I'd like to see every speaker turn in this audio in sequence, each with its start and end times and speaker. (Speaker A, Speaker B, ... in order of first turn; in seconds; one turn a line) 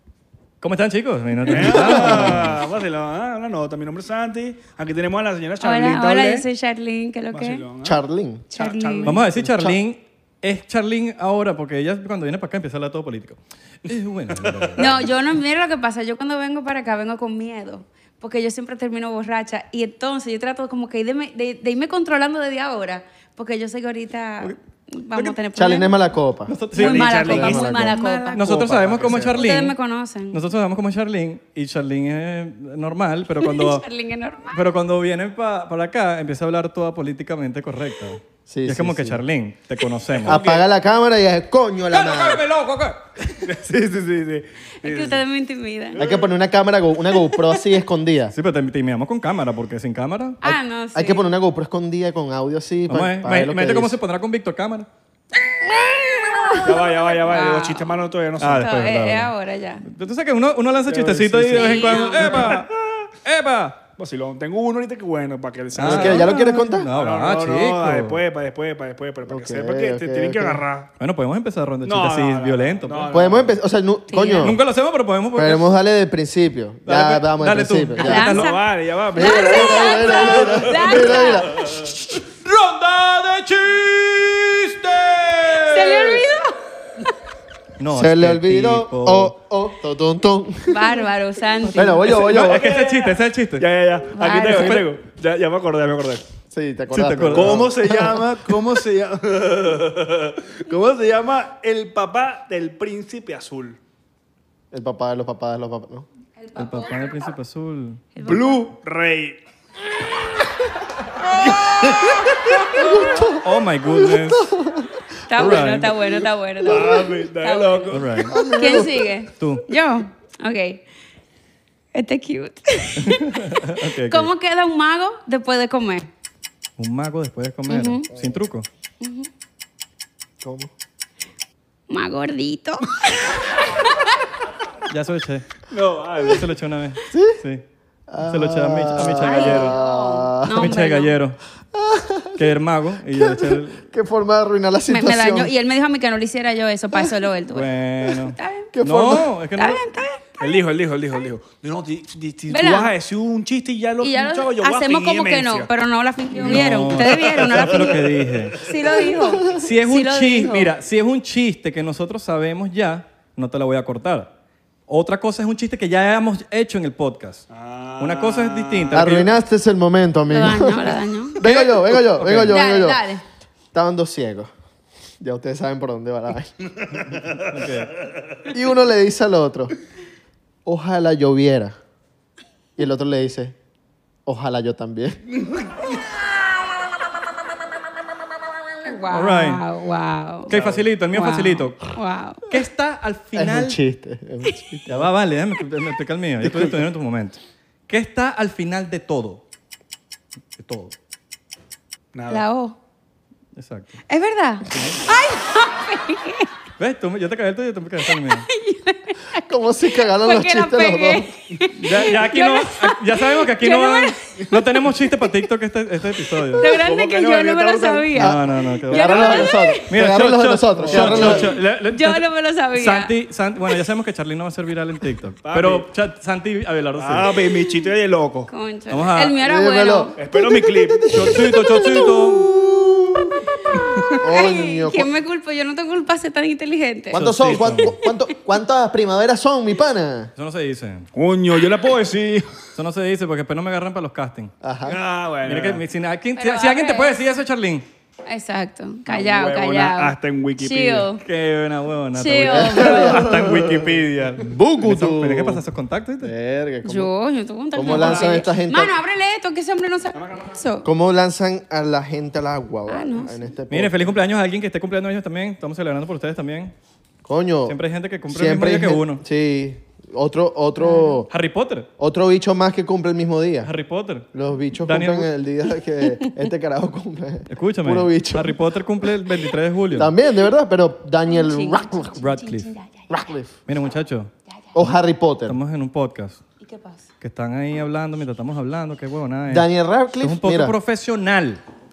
Speaker A: 0.6-2.6
Speaker B: 1.5-6.5
Speaker C: 1.6-2.6
Speaker D: 5.6-7.6
Speaker B: 7.3-9.3
Speaker C: 7.8-8.5
Speaker D: 8.5-9.2
Speaker A: 9.0-15.2
Speaker C: 9.3-9.8
Speaker B: 14.4-14.9
Speaker D: 14.8-25.9
Speaker C: 25.5-26.6
Speaker A: 26.5-29.8
Speaker D: 26.7-28.6
Speaker B: 26.7-29.4
Speaker C: 27.2-29.3
Speaker D: 29.3-30.4
Speaker A: 30.3-33.9
Speaker D: 33.4-34.6
Speaker A: 34.5-40.6
Speaker C: 38.5-39.2
Speaker C: 40.2-42.5
Speaker B: 40.3-40.6
Speaker A: 41.9-43.4
Speaker B: 43.4-45.2
Speaker D: 44.8-46.0
Speaker C: 45.9-48.3
Speaker B: 46.0-46.3
Speaker A: 48.3-50.4
Speaker D: 50.4-51.2
Speaker C: 50.4-54.0
Speaker A: 52.9-54.9
Speaker D: 56.4-58.0
Speaker B: 56.6-58.7
Speaker A: 58.4-59.3
Speaker D: 58.6-59.8
Speaker A: 59.8-63.8
Speaker B: 60.9-63.0
Speaker D: 61.5-62.5
Speaker B: 64.0-66.4
Speaker A: 65.8-68.2
Speaker C: 65.8-66.9
Speaker B: 66.9-70.9
Speaker C: 69.3-70.6
Speaker A: 71.0-73.3
Speaker B: 71.8-73.6
Speaker C: 73.1-74.6
Speaker D: 74.1-74.5
Speaker A: 74.4-75.7
Speaker C: 75.3-78.3
Speaker A: 76.9-78.6
Speaker D: 78.0-78.6
Speaker B: 78.2-80.6
Speaker C: 79.1-82.0
Speaker D: 79.1-81.7
Speaker A: 80.4-86.3
Speaker D: 85.6-87.2
Speaker A: 87.8-89.3
Speaker C: 87.9-91.1
Speaker D: 90.7-92.1
Speaker C: 91.7-92.7
Speaker A: 91.8-93.7
Speaker B: 92.1-96.2
Speaker D: 94.1-94.9
Speaker C: 96.5-98.3
Speaker A: 96.9-97.7
Speaker B: 97.3-103.8
Speaker C: 104.7-106.1
Speaker D: 106.4-107.2
Speaker A: 106.5-108.1
Speaker D: 108.2-108.7
Speaker B: 108.2-109.4
Speaker B: 111.3-112.8
Speaker C: 112.5-115.0
Speaker A: 113.2-114.5
Speaker D: 115.3-120.8
Speaker A: 115.3-115.9
Speaker B: 116.6-118.2
Speaker C: 116.7-117.1
Speaker A: 117.9-118.4
Speaker C: 118.3-119.1
Speaker A: 119.3-119.7
Speaker D: 121.9-126.1
Speaker A: 123.0-124.3
Speaker A: 126.8-128.7
Speaker D: 127.7-128.1
Speaker C: 128.1-128.4
Speaker D: 129.0-129.3
Speaker C: 130.4-130.7
Speaker D: 131.9-134.3
Speaker A: 134.8-135.5
Speaker B: 135.7-136.5
Speaker A: 136.2-137.6
Speaker C: 137.1-137.4
Speaker C: 138.1-140.8
Speaker A: 138.2-139.8
Speaker D: 139.2-141.2
Speaker A: 140.5-141.4
Speaker C: 141.7-142.6
Speaker A: 142.4-143.8
Speaker C: 143.1-145.5
Speaker D: 144.9-147.7
Speaker A: 147.5-149.8
Speaker D: 148.3-148.7
Speaker C: 148.7-149.3
Speaker D: 149.6-150.5
Speaker B: 150.4-155.7
Speaker D: 152.5-152.9
Speaker D: 154.0-160.7
Speaker B: 156.3-158.1
Speaker A: 156.4-158.7
Speaker A: 159.4-164.3
Speaker A: 164.9-167.5
Speaker B: 167.5-169.0
Speaker A: 168.0-169.3
Speaker C: 168.9-173.0
Speaker D: 170.3-171.4
Speaker A: 171.4-172.6
Speaker D: 172.5-173.2
Speaker C: 173.7-174.5
Speaker C: 175.2-176.5
Speaker A: 177.4-177.9
Speaker C: 178.5-179.7
Speaker C: 180.7-181.8
Speaker C: 182.8-183.6
Speaker C: 184.3-185.2
Speaker D: 188.8-190.5
Speaker A: 189.1-189.6
Speaker A: 190.5-191.9
Speaker C: 190.5-190.8
Speaker B: 190.5-190.8
Speaker D: 191.1-192.5
Speaker A: 192.4-193.8
Speaker C: 193.3-195.1
Speaker A: 194.9-199.4
Speaker C: 196.4-196.8
Speaker A: 200.6-200.9
Speaker B: 202.1-202.4
Speaker D: 202.3-202.8
Speaker A: 203.6-204.0
Speaker D: 204.1-206.5
Speaker A: 204.7-205.0
Speaker A: 206.8-208.5
Speaker D: 208.2-214.5
Speaker C: 209.4-211.3
Speaker A: 211.7-216.7
Speaker D: 216.6-219.9
Speaker B: 216.6-218.1
Speaker A: 218.1-227.3
Speaker C: 218.2-221.6
Speaker B: 220.8-221.5
Speaker D: 221.2-223.1
Speaker B: 225.4-225.9
Speaker B: 227.0-228.5
Speaker D: 227.6-227.9
Speaker D: 228.5-230.2
Speaker A: 228.9-229.4
Speaker C: 229.4-233.5
Speaker B: 230.2-231.4
Speaker A: 231.1-232.5
Speaker D: 233.5-237.2
Speaker C: 234.1-235.1
Speaker C: 237.1-240.3
Speaker A: 237.1-238.0
Speaker A: 240.4-241.1
Speaker B: 241.1-242.5
Speaker A: 242.8-244.5
Speaker C: 244.6-245.0
Speaker B: 244.9-245.8
Speaker A: 245.4-247.8
Speaker D: 246.4-247.2
Speaker D: 248.3-251.2
Speaker B: 249.1-251.1
Speaker A: 251.2-256.3
Speaker D: 252.1-253.3
Speaker C: 252.4-255.6
Speaker C: 256.2-257.1
Speaker D: 256.8-260.9
Speaker C: 257.7-259.0
Speaker B: 257.9-258.4
Speaker B: 260.1-260.6
Speaker C: 260.8-264.1
Speaker D: 262.9-263.4
Speaker A: 263.7-266.7
Speaker C: 267.2-271.3
Speaker A: 267.7-269.2
Speaker D: 270.8-271.1
Speaker A: 271.3-271.9
Speaker C: 272.0-273.7
Speaker A: 273.6-274.3
Speaker C: 274.3-278.6
Speaker A: 274.9-275.3
Speaker A: 277.5-280.1
Speaker C: 279.9-282.2
Speaker D: 281.3-283.2
Speaker A: 282.2-282.7
Speaker C: 283.1-283.6
Speaker A: 283.7-284.3
Speaker D: 284.5-284.8
Speaker C: 284.7-285.6
Speaker A: 285.5-286.4
Speaker D: 286.6-287.1
Speaker A: 287.2-291.6
Speaker C: 289.5-290.8